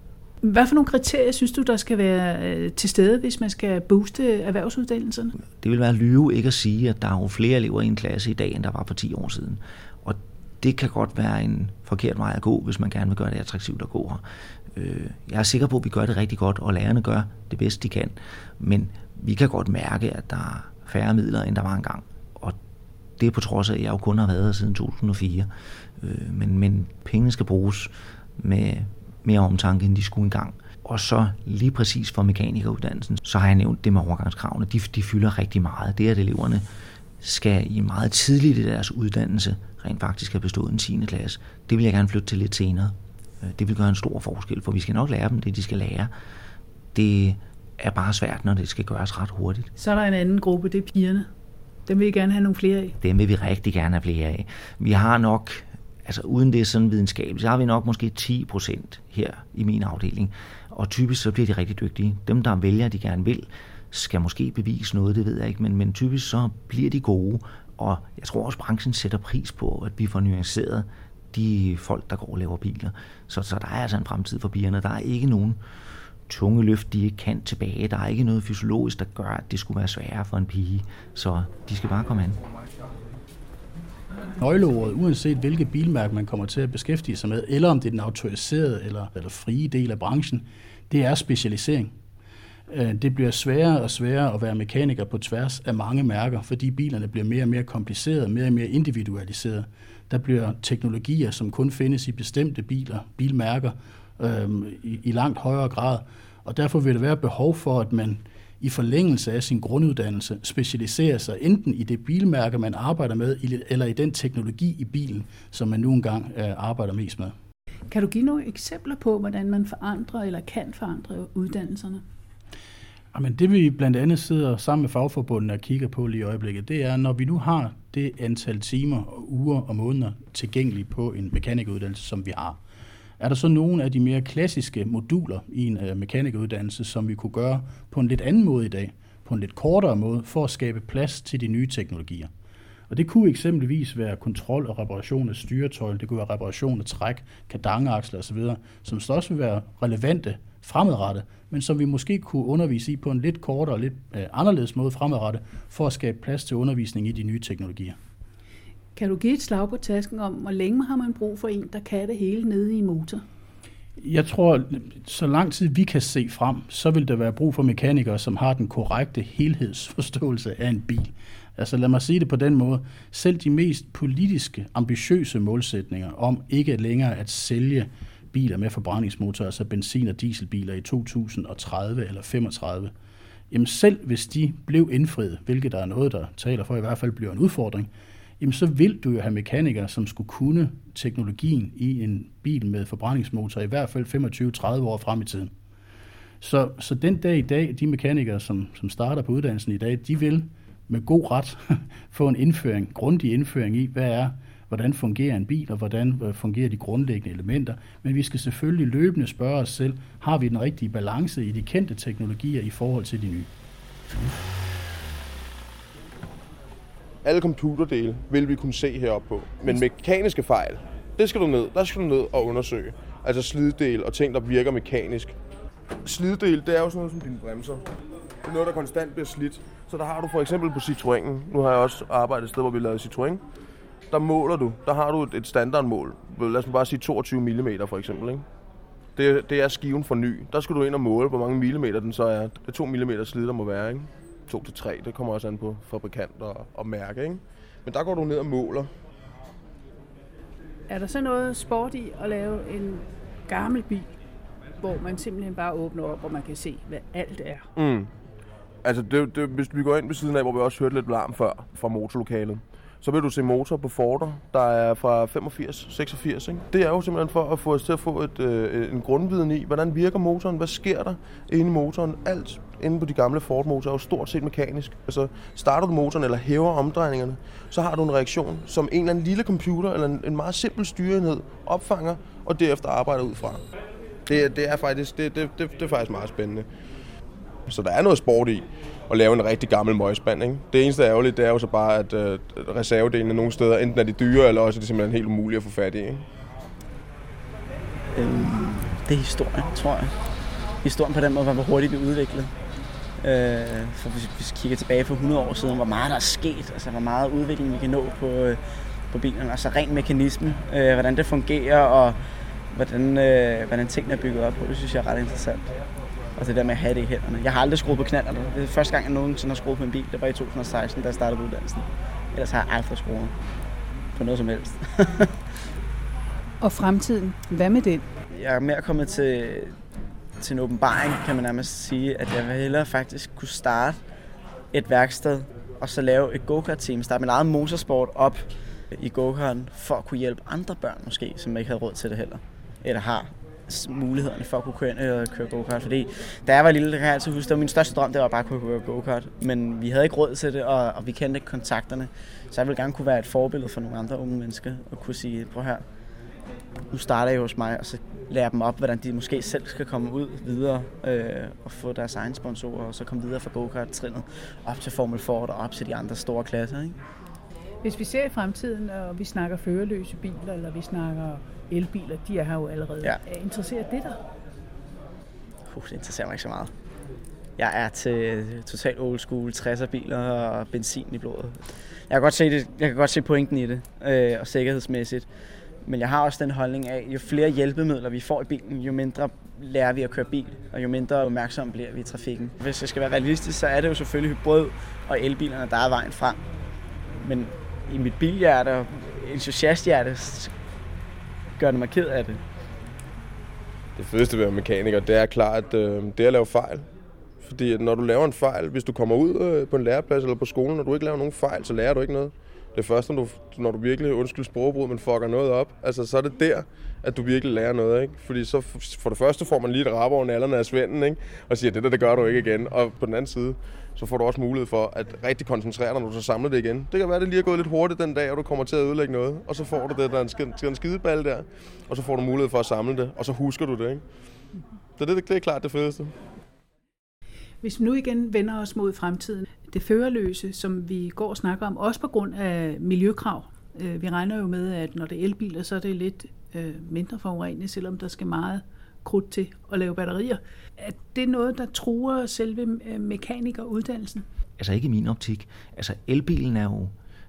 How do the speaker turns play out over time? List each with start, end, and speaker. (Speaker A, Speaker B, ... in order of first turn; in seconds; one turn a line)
Speaker A: 0.4-5.3
Speaker B: 5.6-22.6
Speaker B: 23.2-36.6
Speaker B: 37.2-46.1
Speaker B: 46.9-49.7
Speaker A: 49.8-51.3
Speaker A: 51.9-53.0
Speaker B: 53.0-75.6
Speaker B: 76.3-82.4
Speaker C: 84.4-91.9
Speaker C: 92.7-117.3
Speaker A: 117.9-122.0
Speaker C: 123.1-132.6
Speaker C: 133.2-142.3
Speaker C: 142.9-157.9
Speaker A: 158.9-163.2
Speaker C: 164.0-182.9
Speaker C: 183.5-195.5
Speaker C: 196.4-213.5
Speaker D: 217.2-225.3
Speaker D: 226.0-227.8
Speaker D: 228.4-233.4
Speaker D: 234.1-238.4
Speaker D: 239.2-248.9
Speaker A: 250.9-254.2
Speaker A: 254.8-257.7
Speaker D: 257.8-258.1
Speaker D: 258.8-283.6
Speaker D: 284.3-286.6
Speaker D: 287.7-296.2
Speaker E: 298.1-300.1
Speaker E: 300.8-302.5
Speaker E: 303.2-308.6
Speaker E: 309.1-312.2
Speaker E: 312.7-315.7
Speaker E: 316.4-323.3
Speaker E: 324.1-325.4
Speaker A: 326.6-328.1
Speaker E: 328.3-329.7
Speaker E: 330.4-334.0
Speaker E: 334.7-355.8
Speaker E: 356.9-367.0
Speaker A: 367.8-374.2
Speaker E: 375.7-376.7
Speaker E: 377.6-385.3
Speaker E: 385.8-396.4
Speaker E: 397.2-400.5
Speaker E: 401.6-402.4
Speaker D: 403.9-406.9
Speaker D: 407.4-434.0
Speaker D: 435.0-436.1
Speaker A: 437.6-454.2
Speaker B: 454.6-456.9